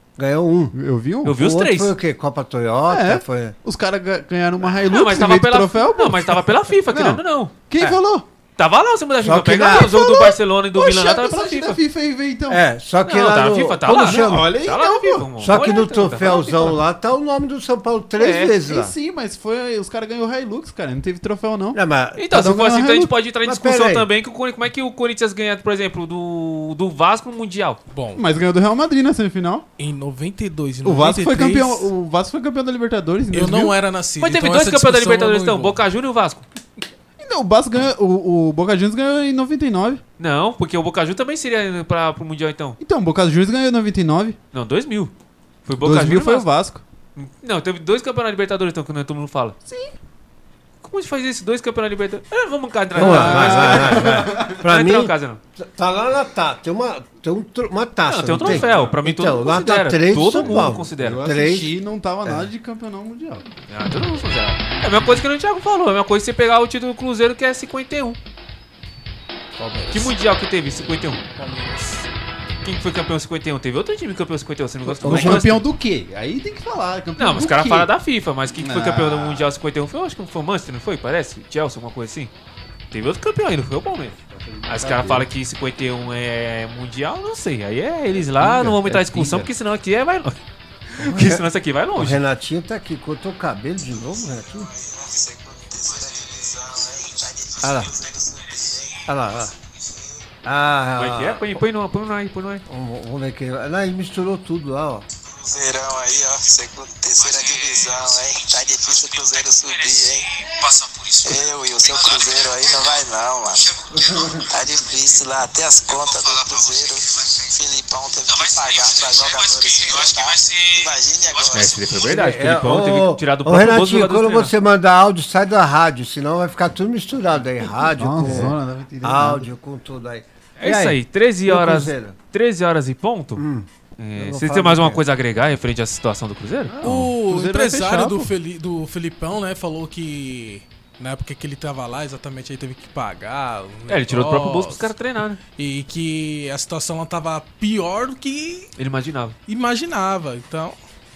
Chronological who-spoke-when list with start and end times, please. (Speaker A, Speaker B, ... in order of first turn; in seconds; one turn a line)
Speaker A: 0.2-0.7
Speaker B: 0.7-1.4
Speaker C: 1.2-1.9
Speaker A: 1.3-3.5
Speaker B: 2.9-8.2
Speaker C: 4.9-8.0
Speaker C: 8.6-11.8
Speaker A: 9.2-10.3
Speaker B: 9.7-12.6
Speaker A: 12.5-14.5
Speaker C: 13.0-16.8
Speaker B: 13.9-15.6
Speaker A: 15.4-18.9
Speaker C: 18.2-18.5
Speaker B: 18.6-23.1
Speaker A: 21.7-22.3
Speaker C: 22.1-27.8
Speaker A: 23.4-24.1
Speaker D: 27.9-28.2
Speaker B: 28.1-29.6
Speaker D: 29.8-31.9
Speaker B: 30.8-33.7
Speaker D: 33.3-35.8
Speaker C: 34.2-36.4
Speaker B: 37.2-40.0
Speaker C: 40.2-42.8
Speaker B: 42.8-44.4
Speaker C: 44.5-45.1
Speaker C: 45.6-46.5
Speaker B: 45.8-46.8
Speaker C: 47.1-49.5
Speaker B: 49.6-49.9
Speaker C: 50.8-55.4
Speaker B: 52.9-54.6
Speaker A: 53.0-61.7
Speaker C: 58.0-61.2
Speaker B: 58.4-58.9
Speaker B: 60.3-63.5
Speaker A: 62.2-62.5
Speaker C: 63.7-68.2
Speaker A: 69.6-70.0
Speaker C: 69.9-71.2
Speaker D: 71.3-72.1
Speaker C: 72.6-75.6
Speaker B: 74.8-77.9
Speaker A: 75.0-75.5
Speaker C: 77.2-82.3
Speaker B: 78.5-79.5
Speaker C: 82.9-84.2
Speaker A: 84.3-85.3
Speaker C: 84.7-90.4
Speaker B: 88.4-89.5
Speaker C: 90.9-92.2
Speaker A: 91.0-94.7
Speaker E: 94.6-99.0
Speaker A: 97.6-97.9
Speaker A: 99.1-99.5
Speaker A: 100.4-101.5
Speaker C: 101.0-102.6
Speaker A: 102.7-105.1
Speaker E: 105.3-121.9
Speaker C: 121.5-124.5
Speaker A: 122.0-132.2
Speaker B: 127.6-129.5
Speaker C: 130.6-133.4
Speaker A: 133.4-135.0
Speaker C: 134.0-136.8
Speaker B: 136.7-138.3
Speaker D: 136.8-144.9
Speaker C: 143.9-145.4
Speaker D: 145.6-148.7
Speaker C: 148.8-149.3
Speaker D: 149.5-150.8